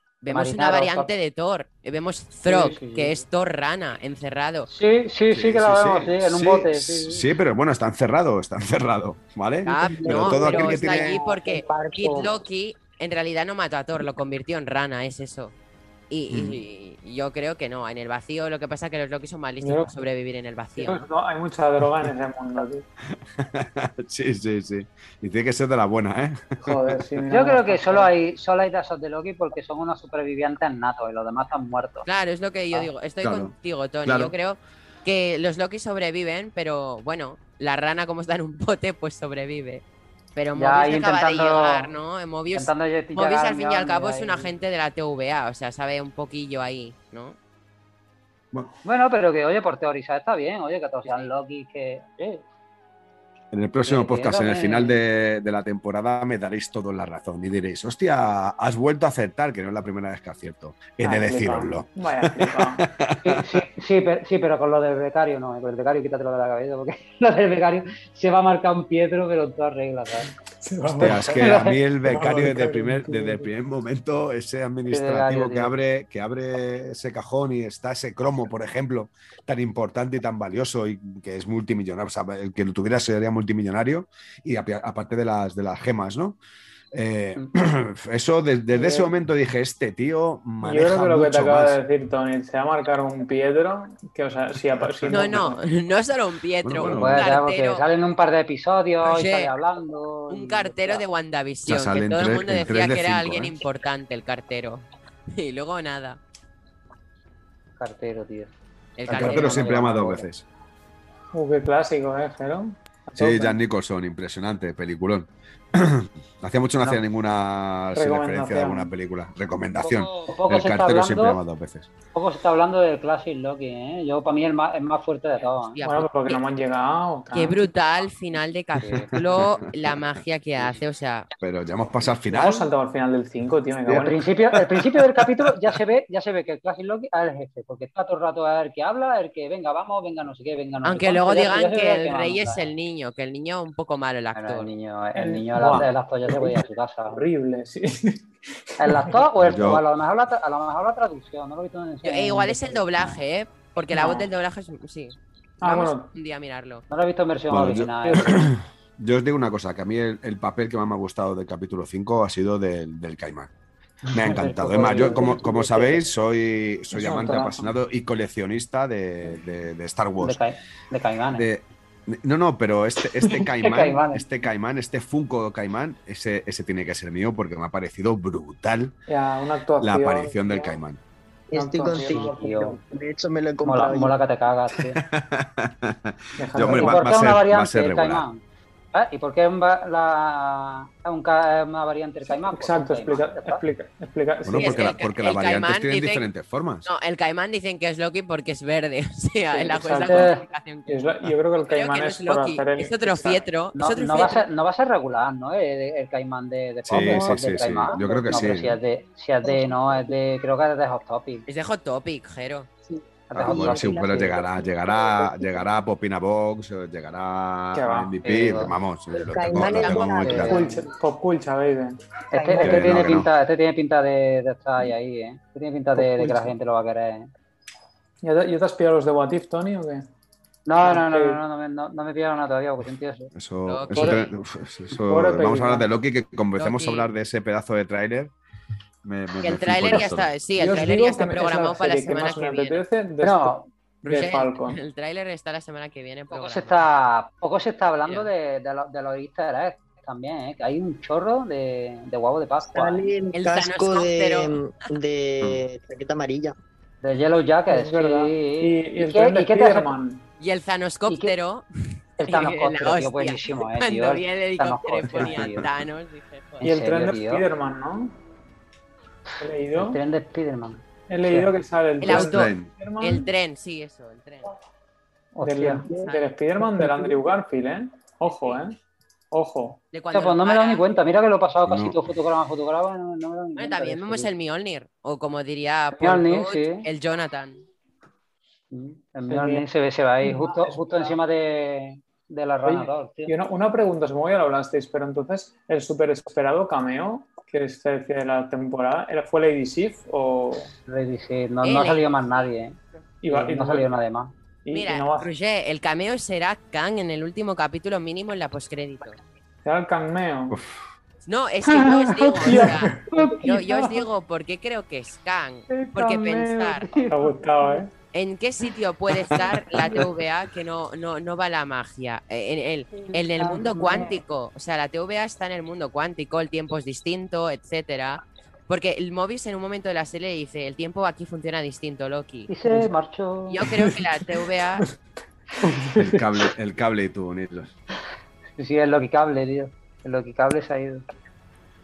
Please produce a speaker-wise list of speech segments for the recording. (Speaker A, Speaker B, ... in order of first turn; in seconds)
Speaker A: 0.2-4.7, 9.7-15.5, 16.1-21.0, 32.0-39.8, 40.3-47.4, 95.1-97.8, 99.0-99.5, 100.3-106.2, 109.0-109.7, 125.6-126.4, 127.3-131.3, 140.8-144.7, 152.0-156.8, 194.5-196.3, 196.8-201.0, 201.6-204.5, 211.5-212.7, 219.6-220.0, 233.7-234.3, 236.6-237.1, 239.4-242.8, 244.0-246.8, 253.3-254.7, 260.4-261.6, 262.2-266.6, 272.0-274.5, 279.9-280.9, 283.6-287.6, 301.6-302.1, 304.7-309.2, 311.2-316.9, 318.1-332.5, 333.5-334.9
Speaker B: 0.3-1.1, 2.5-3.1, 4.7-7.3, 27.3-32.0, 40.5-41.9, 42.5-44.5, 48.8-52.4, 53.8-55.0, 63.2-70.3, 71.0-71.8, 74.9-75.7, 96.9-101.0, 107.8-108.5, 109.1-110.3, 119.8-121.4, 122.1-125.8, 128.8-129.1, 134.0-142.7, 144.3-147.2, 148.8-152.8, 156.9-158.5, 164.1-166.0, 170.2-171.5, 173.5-174.2, 181.8-182.8, 183.6-185.0, 186.6-188.4, 188.9-193.6, 200.0-200.4, 203.7-211.4, 213.3-214.4, 218.2-218.7, 220.2-220.8, 222.3-227.3, 230.7-233.3, 243.2-243.7, 246.3-253.1, 257.0-259.9, 261.1-261.3, 262.2-265.7, 266.6-267.4, 269.7-271.5, 275.3-275.9, 280.1-284.3, 285.9-286.9, 288.7-293.3, 300.9-304.3, 312.5-314.0, 315.7-317.8, 323.0-324.2, 332.5-333.7, 338.6-341.0
Speaker C: 5.3-11.2, 16.3-16.6, 23.1-27.0, 33.2-33.5, 34.0-34.3, 53.5-63.6, 71.0-86.4, 86.9-91.8, 96.6-97.3, 101.7-103.5, 109.1-110.5, 113.2-121.9, 129.1-129.7, 131.4-132.6, 133.8-135.5, 149.4-149.8, 157.5-163.5, 164.1-170.4, 171.3-178.9, 179.8-181.0, 184.7-188.2, 194.4-196.9, 206.8-208.8, 213.3-220.6, 222.6-223.3, 233.3-238.3, 239.0-240.3, 265.1-265.7, 272.1-272.7, 281.6-282.0, 310.5-310.8, 336.0-337.7
Speaker D: 9.7-12.4, 181.5-184.2, 206.9-208.4, 209.4-210.2, 212.9-215.7, 219.1-220.8, 222.3-223.1, 225.9-226.5, 252.7-256.6, 275.9-277.1
Speaker E: 19.6-19.9, 20.8-22.9, 26.6-28.1, 61.0-62.8, 70.6-73.5, 88.7-89.1, 90.6-95.6, 111.3-113.6, 117.9-118.9, 125.8-127.6, 132.3-134.2, 145.1-149.2, 153.9-154.3, 155.6-156.1, 164.9-165.3, 166.9-167.7, 179.1-180.8, 181.5-182.6, 183.7-184.0, 186.4-187.2, 192.2-194.9, 199.5-200.3, 200.9-203.4, 217.7-218.1, 220.3-222.0, 228.2-230.1, 230.8-231.4, 233.9-234.2, 235.0-235.9, 240.6-244.8, 257.7-260.2, 266.6-268.2, 269.4-270.0, 271.1-273.3, 275.4-278.8, 279.3-279.8, 289.3-289.6, 290.2-291.1, 292.6-300.7, 303.2-303.9, 304.6-305.3, 309.6-310.6, 311.7-313.4, 316.9-317.9, 333.7-334.0, 335.6-336.4